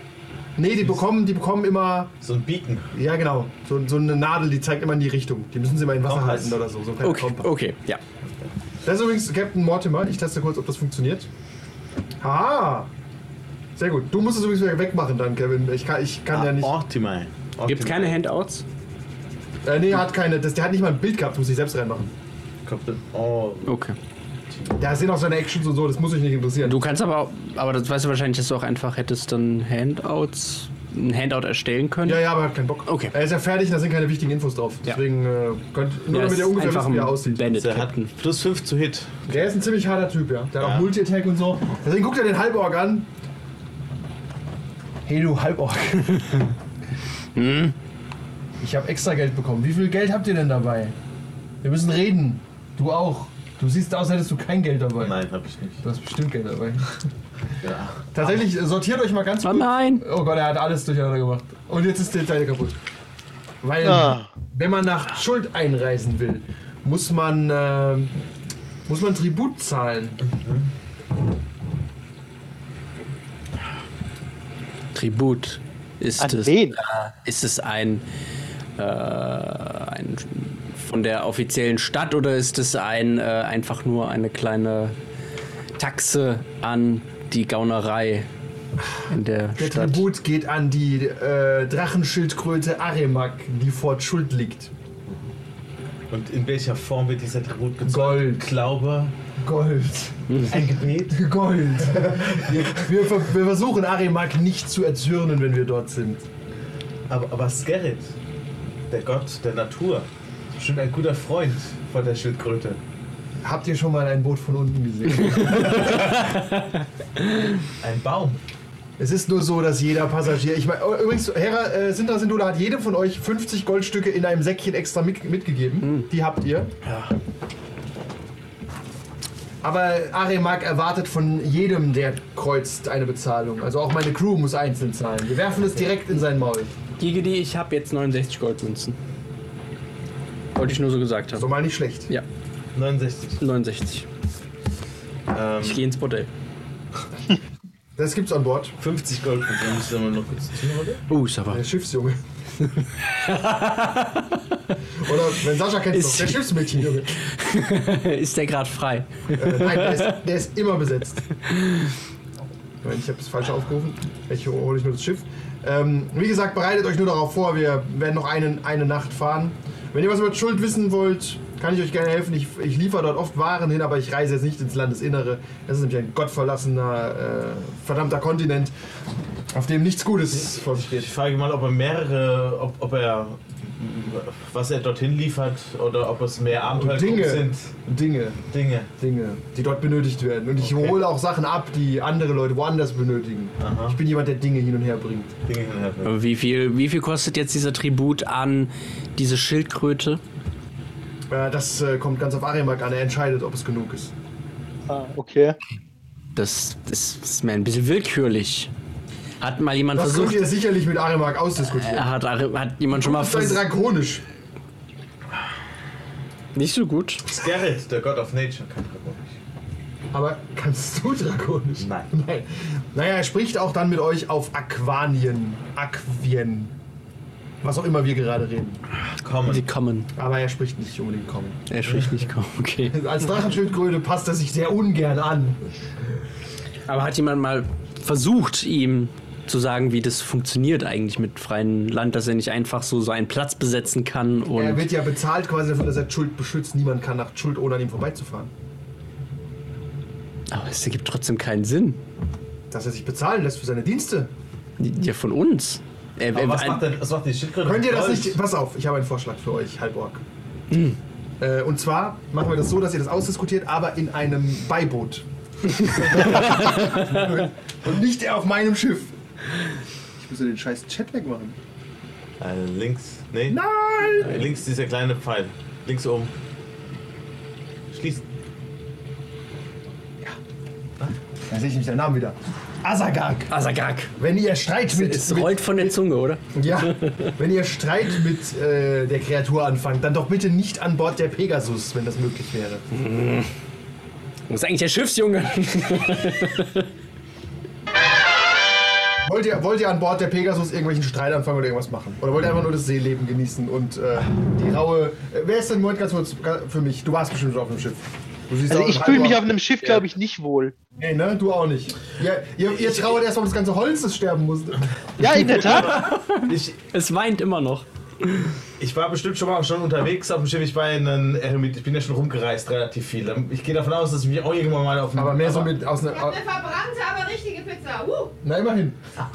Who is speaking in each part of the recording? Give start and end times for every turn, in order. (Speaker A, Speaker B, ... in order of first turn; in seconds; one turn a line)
Speaker A: 0.6-2.1
Speaker B: 2.2-2.9
Speaker A: 2.9-7.5
Speaker B: 6.0-6.6
Speaker C: 7.0-8.0
Speaker A: 8.8-11.3
Speaker A: 12.2-12.9
Speaker A: 13.8-16.7
Speaker B: 16.3-18.2
Speaker C: 17.7-18.6
Speaker A: 19.6-22.1
Speaker B: 22.6-23.8
Speaker C: 23.7-24.0
Speaker B: 24.5-24.8
Speaker A: 24.8-26.8
Speaker C: 26.6-32.3
Speaker A: 32.0-37.5
Speaker C: 32.9-33.1
Speaker C: 36.1-38.1
Speaker B: 37.5-39.3
Speaker A: 39.3-43.1
Speaker B: 40.6-40.9
Speaker A: 45.0-46.4
Speaker C: 47.4-47.8
Speaker A: 48.6-51.0
Speaker A: 51.6-55.2
Speaker B: 55.0-55.9
Speaker A: 55.8-57.1
Speaker B: 57.5-58.2
Speaker A: 58.1-62.8
Speaker C: 59.4-60.0
Speaker A: 63.6-68.2
Speaker D: 63.8-64.3
Speaker A: 68.9-70.2
Speaker B: 70.3-70.7
Speaker C: 75.0-78.0
Speaker D: 76.2-76.8
Speaker C: 78.8-85.0
Speaker C: 85.8-88.3
Speaker C: 89.1-90.1
Speaker A: 89.6-94.7
Speaker B: 96.1-99.1
Speaker A: 97.8-98.5
Speaker A: 99.4-100.5
Speaker C: 100.3-100.5
Speaker B: 100.5-101.2
Speaker A: 101.1-106.2
Speaker B: 101.8-102.9
Speaker B: 107.1-108.1
Speaker B: 108.9-112.8
Speaker A: 113.4-116.0
Speaker C: 115.4-117.5
Speaker B: 115.6-116.3
Speaker B: 117.8-118.4
Speaker A: 119.0-126.7
Speaker C: 125.8-126.1
Speaker A: 129.6-136.7
Speaker C: 137.0-139.0
Speaker C: 140.6-141.5
Speaker A: 141.4-142.1
Speaker B: 142.8-143.4
Speaker C: 143.4-144.1
Speaker B: 145.3-145.8
Speaker C: 145.6-146.3
Speaker A: 148.0-148.8
Speaker B: 148.8-151.0
Speaker C: 151.1-151.6
Speaker A: 151.5-152.2
Speaker C: 152.6-154.4
Speaker A: 155.0-157.2
Speaker C: 155.9-160.2
Speaker A: 159.3-161.3
Speaker C: 161.5-161.9
Speaker A: 162.8-178.7
Speaker A: 179.5-181.2
Speaker B: 180.6-187.7
Speaker A: 186.7-188.5
Speaker B: 188.5-188.9
Speaker A: 189.0-195.3
Speaker B: 190.6-191.0
Speaker B: 193.6-194.0
Speaker B: 195.5-196.1
Speaker C: 196.1-200.2
Speaker A: 201.3-204.1
Speaker D: 204.9-205.6
Speaker C: 206.3-208.7
Speaker C: 209.4-210.4
Speaker A: 209.9-212.1
Speaker C: 211.7-213.6
Speaker A: 212.9-214.2
Speaker C: 216.6-217.3
Speaker B: 217.3-219.3
Speaker A: 220.1-226.7
Speaker B: 221.8-222.1
Speaker A: 227.6-228.8
Speaker B: 229.2-229.7
Speaker C: 229.5-230.1
Speaker A: 230.2-231.6
Speaker C: 231.7-233.0
Speaker A: 232.9-235.7
Speaker C: 236.9-244.9
Speaker A: 244.6-248.5
Speaker C: 250.5-252.0
Speaker A: 252.7-254.3
Speaker C: 254.8-256.9
Speaker B: 256.3-258.4
Speaker A: 257.6-260.2
Speaker C: 260.7-261.0
Speaker A: 261.4-265.3
Speaker A: 265.9-269.1
Speaker C: 266.4-267.1
Speaker A: 270.2-271.6
Speaker B: 272.4-276.3
Speaker A: 273.5-274.5
Speaker B: 277.9-278.2
Speaker A: 281.5-283.5
Speaker C: 283.5-284.1
Speaker A: 284.2-286.0
Speaker C: 284.9-287.4
Speaker A: 286.5-292.9
Speaker C: 292.9-293.5
Speaker C: 294.5-296.9
Speaker A: 299.2-309.6
Speaker D: 308.7-310.8
Speaker A: 311.0-314.9
Speaker B: 312.9-313.1
Speaker D: 315.2-316.0
Speaker C: 315.2-318.5
Speaker B: 315.5-316.8
Speaker B: 318.8-325.7
Speaker A: 325.1-326.4
Speaker E: 326.1-328.3
Speaker A: 328.4-329.0